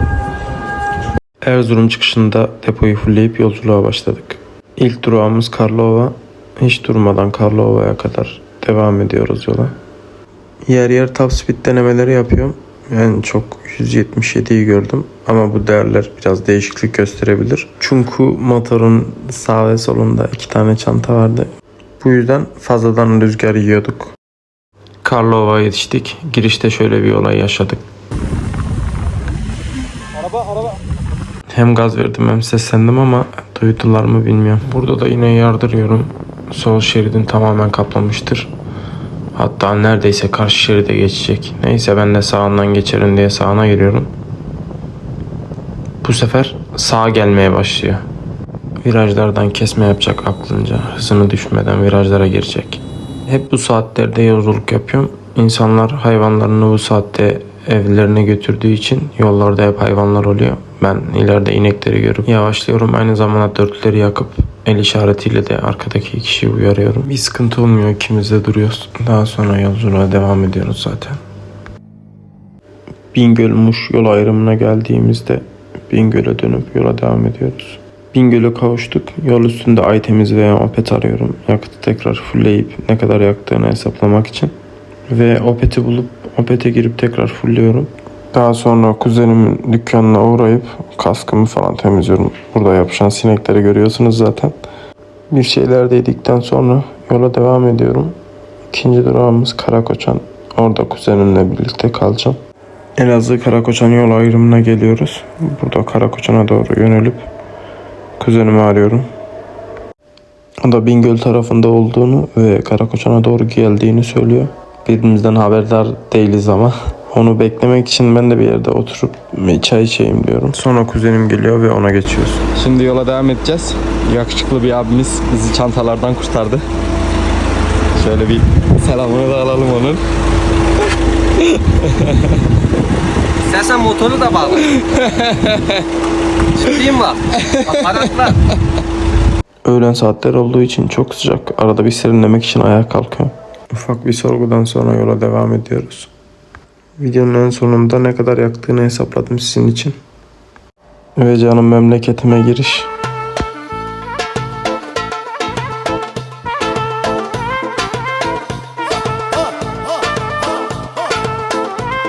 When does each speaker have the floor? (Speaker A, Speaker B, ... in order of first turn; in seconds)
Speaker A: 1.4-9.7, 10.7-24.1, 25.0-27.8, 31.5-38.5, 39.3-44.1, 46.0-48.0, 48.8-71.2, 73.1-84.5, 85.1-94.5, 95.3-98.2, 98.7-102.4, 103.0-107.3, 108.2-109.1, 110.6-122.4, 139.6-146.1, 147.0-149.9, 151.2-152.9
Speaker B: 122.5-126.6, 128.0-130.0, 131.7-132.1, 134.6-135.8, 137.5-138.0
Speaker C: 133.5-134.6, 136.6-138.3